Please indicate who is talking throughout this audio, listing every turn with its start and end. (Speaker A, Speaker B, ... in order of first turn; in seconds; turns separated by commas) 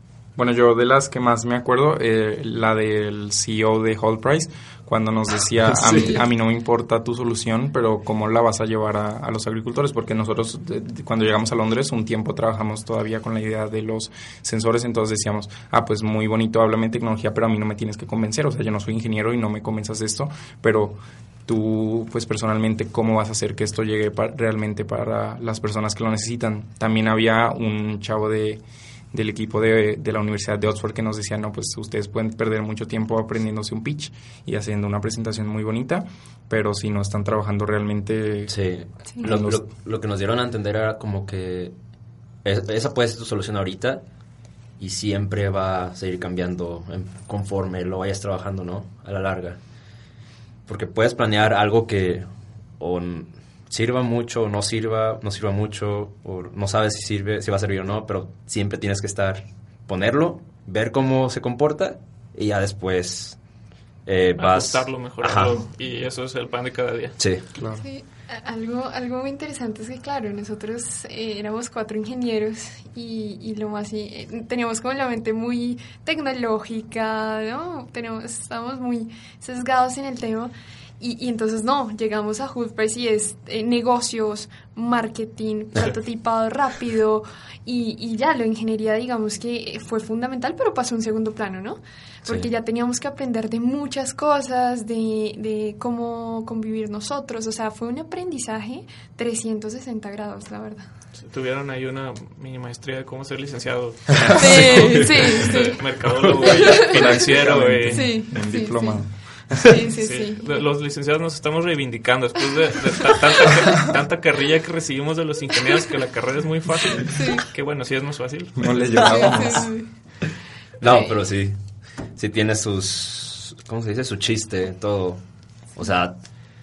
Speaker A: 0.3-38.6, Speaker B: 5.7-6.1, Speaker B: 38.5-41.8, Speaker A: 39.2-39.6, Speaker B: 42.4-44.0, Speaker B: 44.8-49.6, Speaker B: 50.6-52.3, Speaker B: 52.8-63.4, Speaker B: 64.0-65.6, Speaker C: 64.3-67.2, Speaker B: 67.2-67.4, Speaker A: 67.5-67.8, Speaker D: 67.8-100.9, Speaker C: 101.1-108.2, Speaker D: 104.3-110.7, Speaker A: 104.5-104.9, Speaker A: 106.5-109.8, Speaker C: 110.0-119.1, Speaker D: 117.1-117.4, Speaker A: 118.6-119.7, Speaker D: 119.0-120.3, Speaker B: 120.8-126.5, Speaker D: 120.8-121.1